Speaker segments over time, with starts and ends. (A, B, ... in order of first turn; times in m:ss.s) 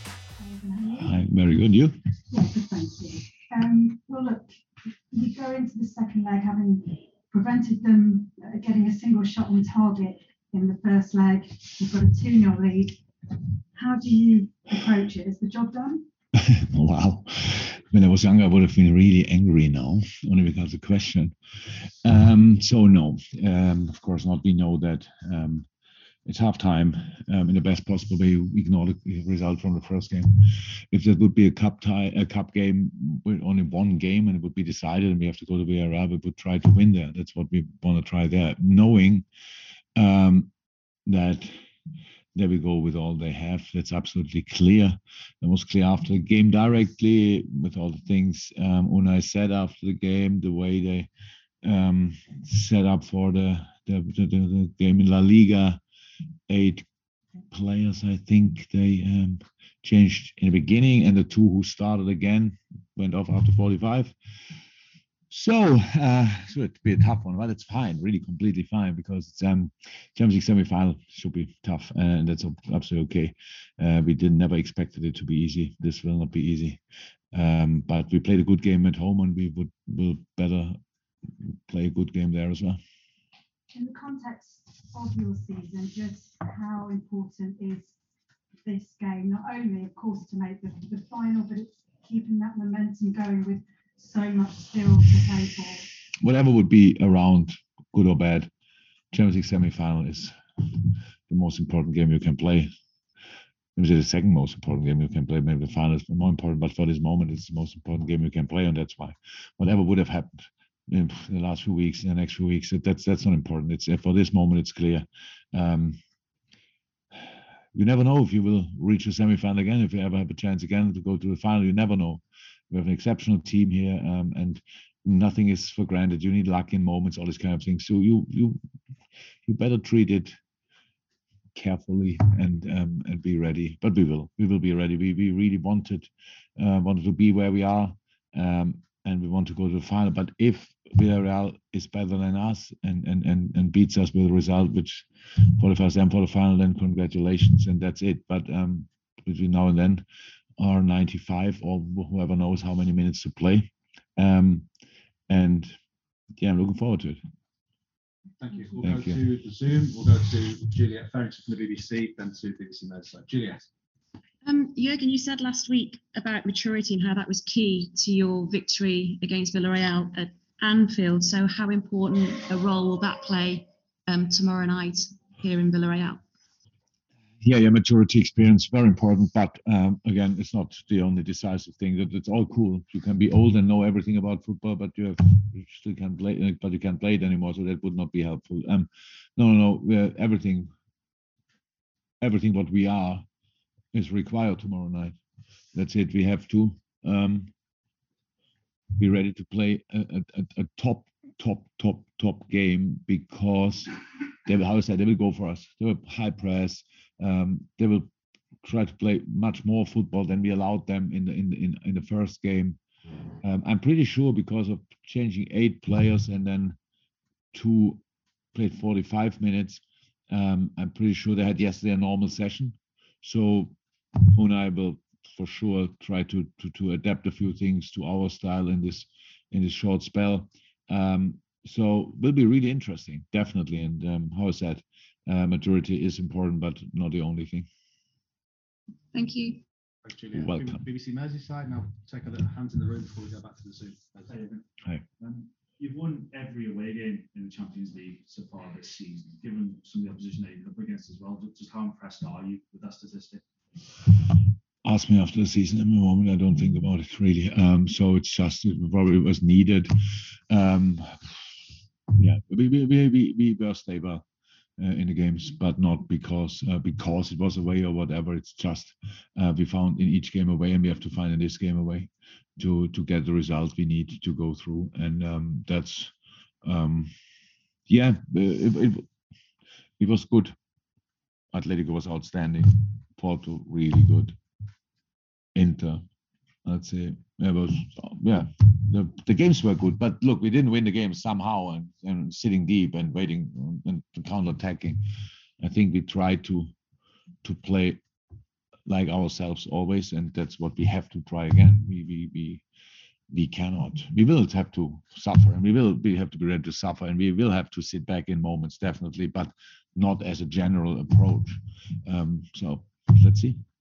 0:00.4-0:01.2 A
0:01.0-0:02.0 B
0:02.3-0:13.0 A
0:13.7-0:16.1 A
0:16.3-0:21.3 B
0:22.0-0:25.7 B
0:26.2-0:39.2 B
0:40.0-0:40.5 B
0:41.0-0:41.6 B
0:42.3-0:51.1 B
0:51.6-0:55.8 B
0:56.5-0:56.8 B
0:57.5-1:04.1 B
1:05.3-1:16.8 B
1:17.3-1:20.8 B
1:21.4-1:22.8 B
1:23.7-1:27.9 A
1:28.6-1:35.9 A
1:36.2-1:38.5 B
1:39.1-1:42.7 B
1:43.8-1:56.0 B
1:57.7-2:08.6 B
2:09.4-2:10.4 B
2:11.5-2:30.0 B
2:30.6-2:34.7 B
2:35.3-2:35.7 B
2:36.4-2:37.2 B
2:38.4-2:43.7 C
2:38.8-2:39.2 B
2:44.4-2:56.2 D
2:57.4-3:10.7 B
3:12.2-3:13.2 B
3:13.9-3:15.2 B
3:15.7-3:17.5 B
3:19.0-3:28.1 B
3:28.6-3:32.8 B
3:33.4-3:36.8 B
3:37.5-3:38.0 B
3:38.5-3:57.7 B
3:59.1-3:59.6 D
4:00.0-4:04.3 C
4:00.3-4:00.8 B
4:04.2-4:04.6 E
4:05.2-4:13.4 E
4:14.8-4:19.9 B
4:20.5-4:21.4 B
4:22.1-4:24.2 B
4:24.8-4:36.1 B
4:36.6-4:37.1 B
4:37.9-4:39.1 B
4:40.0-4:40.5 B
4:41.5-4:44.4 B
4:45.5-4:46.0 B
4:46.6-4:55.0 B
4:55.6-4:56.7 B
4:57.4-4:58.0 B
4:58.9-5:02.6 B
5:03.3-5:13.6 B